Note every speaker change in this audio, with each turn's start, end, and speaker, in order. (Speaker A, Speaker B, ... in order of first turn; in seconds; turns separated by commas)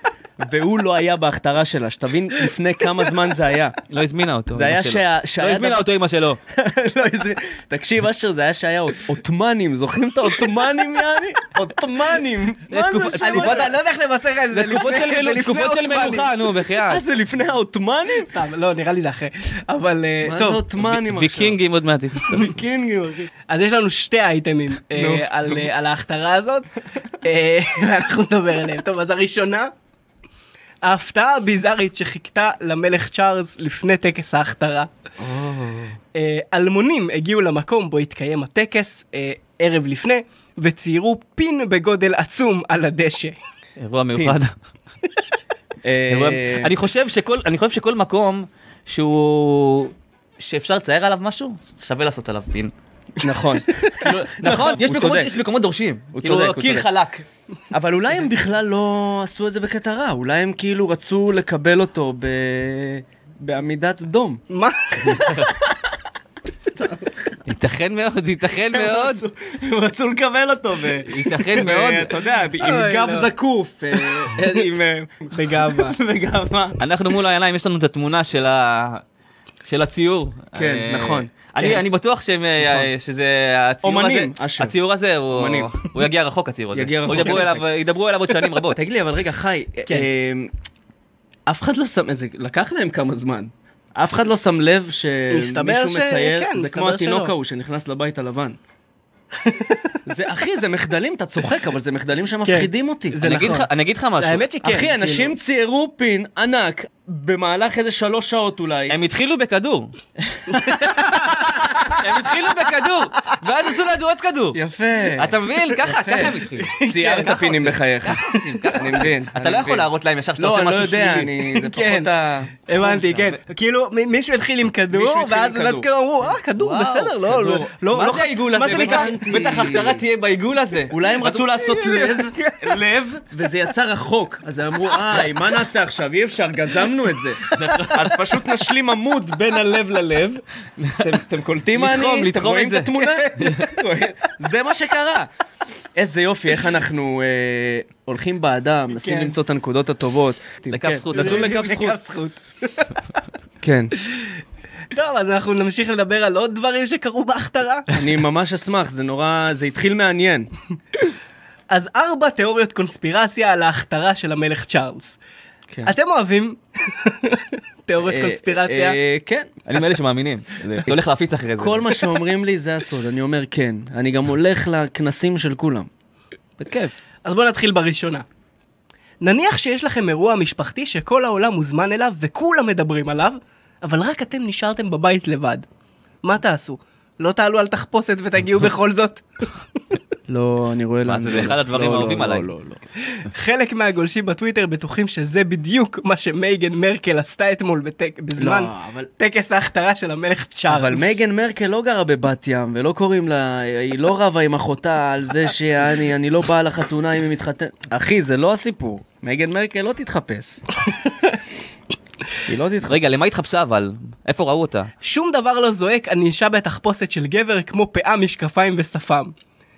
Speaker A: 0.4-3.8, Speaker B: 3.9-6.4, Speaker A: 4.5-5.9, Speaker A: 6.5-13.7, Speaker B: 12.7-13.7, Speaker C: 13.1-16.3, Speaker B: 14.5-17.0, Speaker A: 16.9-18.3, Speaker C: 18.2-20.6, Speaker A: 20.2-21.6, Speaker B: 20.6-22.3, Speaker A: 22.2-23.3, Speaker C: 23.5-26.7, Speaker A: 24.9-25.6, Speaker C: 27.2-29.7, Speaker C: 30.8-34.9, Speaker A: 35.2-36.0, Speaker C: 36.1-43.4, Speaker B: 43.8-44.5, Speaker A: 45.8-46.7, Speaker B: 46.1-52.7, Speaker A: 53.2-55.4, Speaker B: 54.0-57.2, Speaker A: 56.1-56.9, Speaker A: 57.7-64.4, Speaker C: 64.5-65.3, Speaker A: 65.0-65.8, Speaker B: 65.0-65.5, Speaker A: 66.7-67.3, Speaker B: 67.5-69.2, Speaker A: 68.7-76.8, Speaker B: 71.0-72.2, Speaker C: 72.5-73.3, Speaker C: 74.0-74.5, Speaker C: 75.3-76.0, Speaker B: 76.8-79.0, Speaker B: 79.6-88.8, Speaker A: 80.5-81.3, Speaker A: 83.8-84.8, Speaker A: 85.3-85.9, Speaker A: 86.7-87.6, Speaker A: 88.7-90.5, Speaker A: 91.5-98.6, Speaker C: 95.3-97.3, Speaker C: 99.4-100.0, Speaker A: 100.0-103.2, Speaker C: 102.4-103.7, Speaker B: 103.2-104.5, Speaker C: 104.2-105.3, Speaker A: 104.6-109.0, Speaker B: 108.9-109.9, Speaker A: 110.3-112.0, Speaker C: 110.5-111.9, Speaker B: 111.9-114.6, Speaker A: 114.5-123.0, Speaker B: 115.2-121.3, Speaker C: 116.6-117.4, Speaker C: 121.4-122.1, Speaker C: 122.7-129.3, Speaker B: 122.8-123.4, Speaker A: 124.9-125.8, Speaker B: 126.6-127.1, Speaker A: 127.3-130.1, Speaker B: 127.9-131.3, Speaker A: 130.9-140.4, Speaker C: 131.4-132.8, Speaker B: 137.4-138.3, Speaker B: 140.8-141.2, Speaker A: 141.0-145.3, Speaker B: 141.7-143.7, Speaker C: 143.0-143.5, Speaker A: 145.9-152.0, Speaker C: 149.0-149.3, Speaker B: 150.7-151.6, Speaker C: 151.1-153.0, Speaker A: 153.6-153.9, Speaker C: 154.9-157.9, Speaker A: 157.9-160.5, Speaker C: 161.7-165.2, Speaker C: 165.8-168.9, Speaker A: 168.0-169.9, Speaker B: 169.7-171.9, Speaker A: 170.6-170.9, Speaker A: 171.6-175.9, Speaker A: 176.6-176.9, Speaker C: 177.2-178.2, Speaker C: 179.2-185.6, Speaker C: 186.2-189.8, Speaker A: 190.3-192.8, Speaker B: 191.1-192.5, Speaker C: 193.1-201.2, Speaker A: 198.4-199.1, Speaker A: 200.7-210.6, Speaker A: 212.4-213.0, Speaker B: 212.8-214.9, Speaker C: 215.0-219.3